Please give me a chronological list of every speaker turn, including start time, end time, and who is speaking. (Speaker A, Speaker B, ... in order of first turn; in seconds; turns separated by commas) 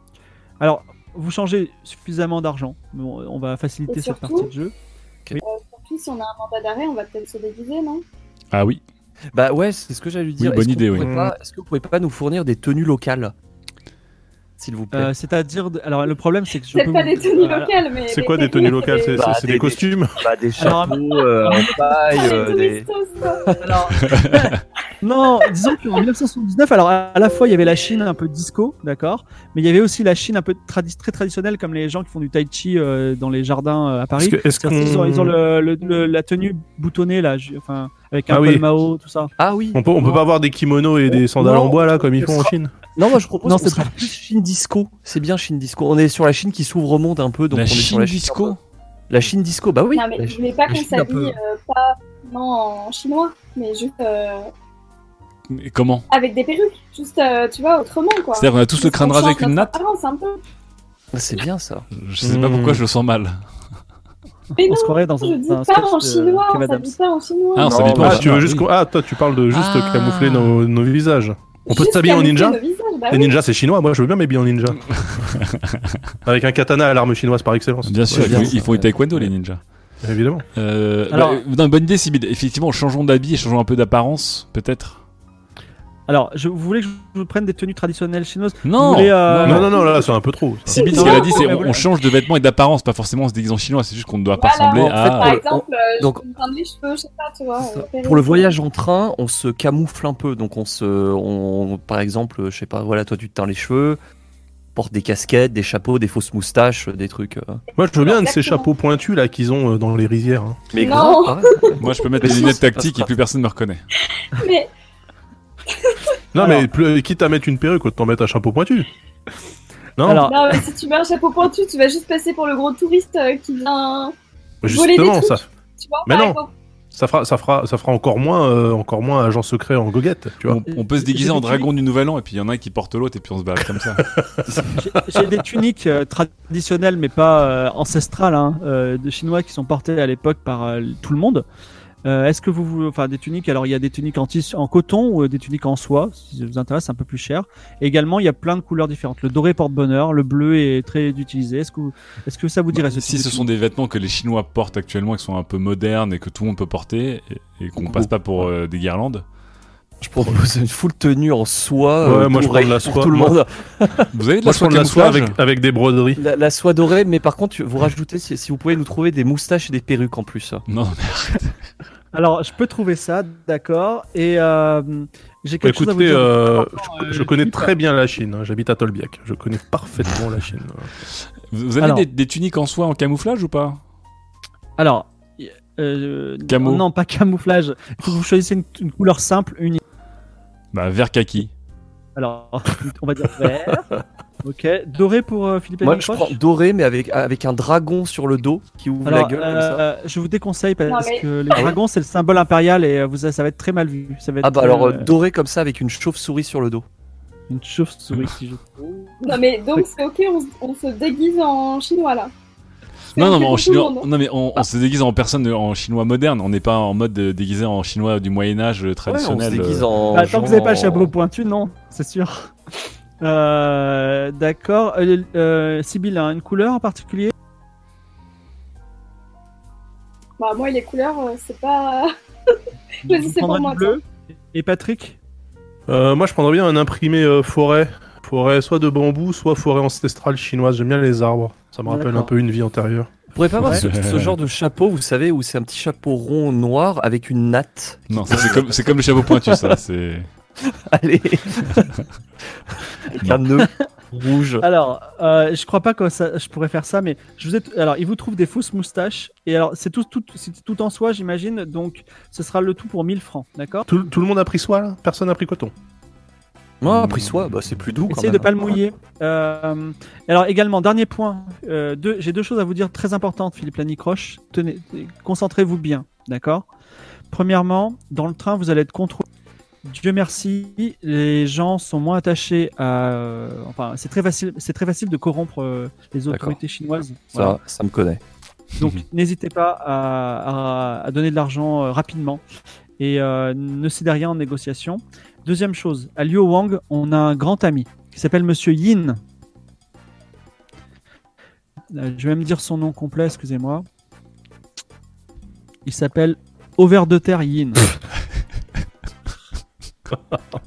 Speaker A: 0.6-4.7, Speaker B: 3.9-4.5, Speaker B: 5.4-8.0, Speaker C: 8.5-8.8, Speaker D: 9.3-13.3, Speaker C: 10.4-11.1, Speaker E: 10.9-11.3, Speaker D: 14.6-15.1, Speaker A: 14.9-17.8, Speaker B: 16.7-19.2, Speaker E: 18.1-20.1, Speaker D: 19.1-23.7, Speaker A: 20.6-21.8, Speaker B: 21.1-23.6, Speaker A: 23.6-39.3, Speaker C: 24.0-24.6, Speaker B: 25.4-25.7, Speaker E: 34.2-35.4, Speaker E: 38.3-38.6, Speaker D: 39.4-40.2, Speaker E: 39.7-42.7, Speaker A: 41.4-42.2, Speaker D: 43.0-48.5, Speaker A: 43.4-44.1, Speaker C: 47.5-48.6, Speaker D: 49.1-51.4, Speaker B: 49.9-54.5, Speaker C: 55.5-56.0, Speaker B: 56.1-60.4, Speaker C: 58.4-59.8, Speaker D: 61.1-61.9, Speaker C: 61.9-63.4, Speaker E: 62.2-62.8, Speaker A: 64.5-67.0, Speaker B: 64.6-67.9, Speaker C: 67.5-68.7, Speaker D: 67.6-68.4, Speaker E: 68.0-74.8, Speaker C: 69.5-70.6, Speaker B: 71.6-73.4, Speaker C: 75.1-76.0, Speaker E: 76.2-78.5, Speaker C: 77.8-79.6, Speaker D: 78.1-79.3, Speaker E: 80.0-80.5, Speaker C: 80.5-85.0, Speaker A: 81.1-81.4, Speaker A: 86.1-89.7, Speaker C: 88.6-89.7, Speaker E: 89.4-90.9, Speaker B: 89.7-90.0, Speaker B: 90.7-91.6, Speaker C: 90.8-95.4, Speaker A: 90.8-91.9, Speaker B: 94.3-98.5, Speaker D: 94.7-96.2, Speaker D: 97.6-104.0, Speaker D: 104.7-107.6, Speaker E: 107.8-110.7, Speaker B: 108.0-108.7, Speaker D: 110.7-113.1, Speaker B: 110.7-112.5, Speaker C: 111.8-113.8, Speaker B: 114.3-114.7, Speaker B: 115.7-116.2, Speaker E: 116.3-118.9, Speaker A: 116.4-116.7, Speaker E: 120.0-120.3, Speaker A: 120.0-120.6, Speaker B: 120.2-124.1, Speaker E: 124.6-125.5, Speaker B: 124.6-126.5, Speaker E: 126.0-126.4, Speaker E: 126.9-130.6, Speaker C: 130.4-134.1, Speaker A: 130.7-131.7, Speaker E: 134.0-134.6, Speaker A: 134.7-141.4, Speaker A: 142.0-153.5, Speaker C: 152.7-159.2, Speaker D: 157.8-158.5, Speaker D: 160.0-164.1, Speaker E: 162.0-163.4, Speaker C: 164.1-165.4, Speaker E: 164.4-166.2, Speaker D: 166.2-170.6, Speaker C: 170.7-171.6, Speaker A: 172.1-177.7, Speaker E: 175.6-180.9, Speaker C: 181.5-183.8, Speaker A: 181.8-182.1, Speaker A: 184.8-189.8, Speaker C: 186.5-186.8, Speaker C: 190.7-191.5, Speaker A: 192.2-193.9, Speaker A: 194.4-196.4, Speaker D: 195.8-199.8, Speaker A: 199.0-205.1, Speaker B: 200.9-201.7, Speaker D: 204.4-206.8, Speaker A: 207.5-209.8, Speaker B: 209.2-212.3, Speaker B: 213.1-214.6, Speaker C: 213.1-219.9, Speaker D: 219.1-221.1, Speaker A: 220.1-222.5, Speaker A: 223.2-227.3, Speaker B: 230.4-232.1, Speaker A: 233.1-235.2, Speaker B: 233.1-234.0, Speaker E: 235.9-243.1, Speaker A: 241.8-242.3, Speaker D: 243.3-249.8, Speaker C: 243.6-244.3, Speaker C: 248.1-250.3, Speaker D: 250.6-251.9, Speaker D: 252.7-254.6, Speaker A: 254.6-263.9, Speaker E: 263.9-265.7, Speaker D: 266.8-268.7, Speaker A: 268.1-276.6, Speaker A: 277.3-279.2, Speaker A: 279.8-287.6, Speaker D: 286.3-286.6, Speaker D: 287.3-288.2, Speaker A: 288.8-292.4, Speaker A: 293.0-299.2, Speaker A: 301.9-303.9, Speaker A: 305.8-307.9, Speaker E: 310.1-310.4